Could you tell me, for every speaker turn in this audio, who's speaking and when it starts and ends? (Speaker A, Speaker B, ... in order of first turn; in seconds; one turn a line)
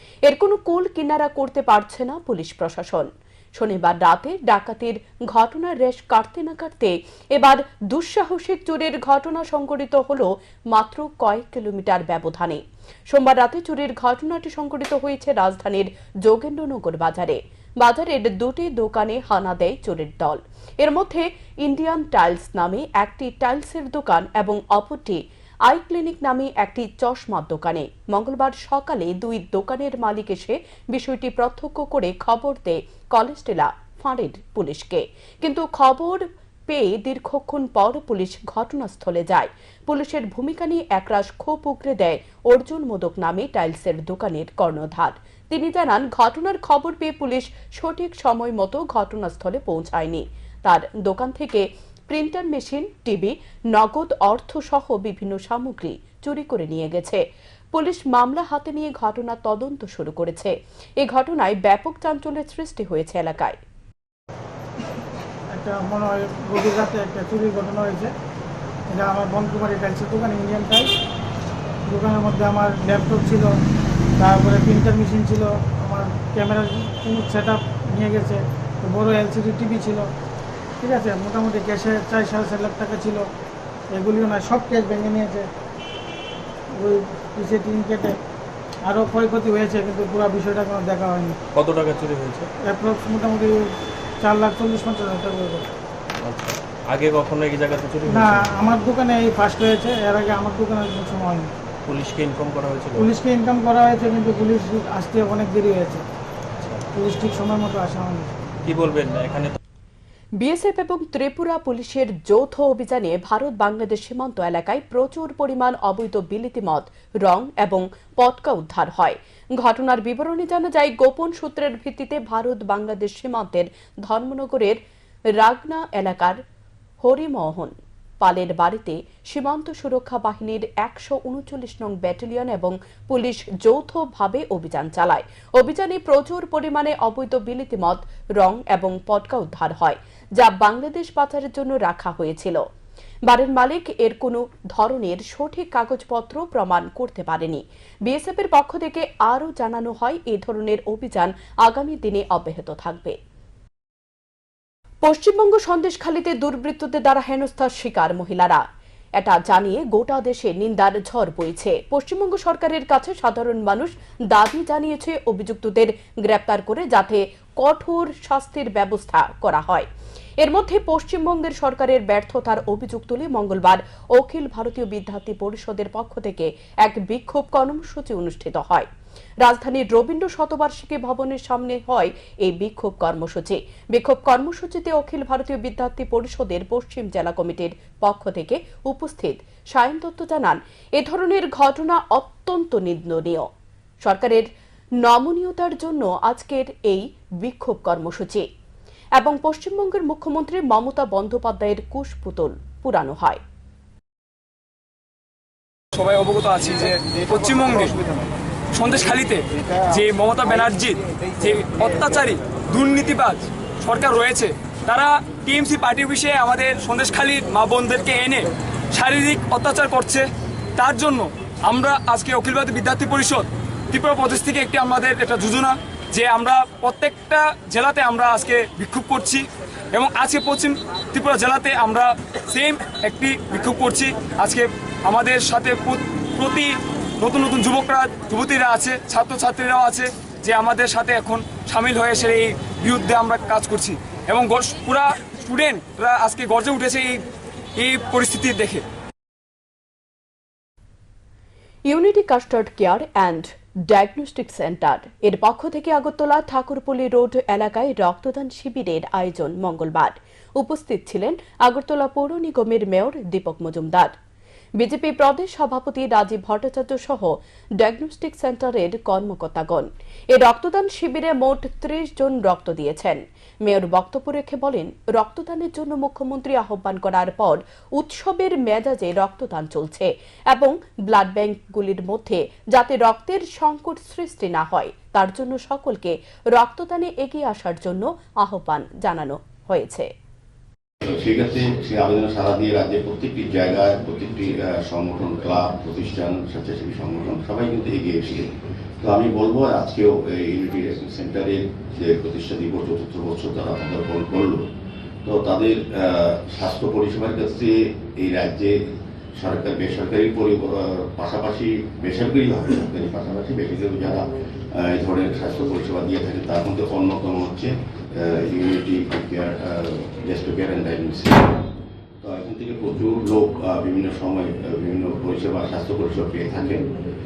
Speaker A: 0.3-57.2
Speaker A: 57.7-63.6
Speaker B: 65.5-68.1
Speaker B: 68.9-70.9
Speaker B: 71.9-73.5
Speaker B: 74.2-80.1
Speaker B: 80.8-83.3
Speaker B: 83.9-85.5
Speaker B: 86.7-88.2
Speaker B: 88.8-91.4
Speaker C: 91.5-92.5
Speaker B: 92.6-95.7
Speaker C: 96.2-98.5
Speaker B: 98.0-101.5
Speaker C: 101.8-103.1
Speaker B: 103.0-106.0
Speaker B: 106.9-108.3
Speaker C: 108.6-109.6
Speaker A: 110.4-124.8
Speaker A: 125.4-126.4
Speaker A: 127.0-142.6
Speaker A: 143.3-153.2
Speaker A: 155.0-158.6
Speaker A: 159.2-169.9
Speaker A: 170.4-178.9
Speaker A: 179.4-193.5
Speaker A: 194.0-194.4
Speaker A: 195.0-198.4
Speaker A: 199.2-203.4
Speaker D: 205.9-208.0
Speaker D: 208.7-247.2
Speaker D: 247.8-248.8
Speaker A: 251.9-264.1
Speaker A: 264.8-290.1
Speaker E: 291.0-304.6
Speaker E: 305.2-308.8
Speaker E: 309.4-321.5
Speaker E: 322.2-326.8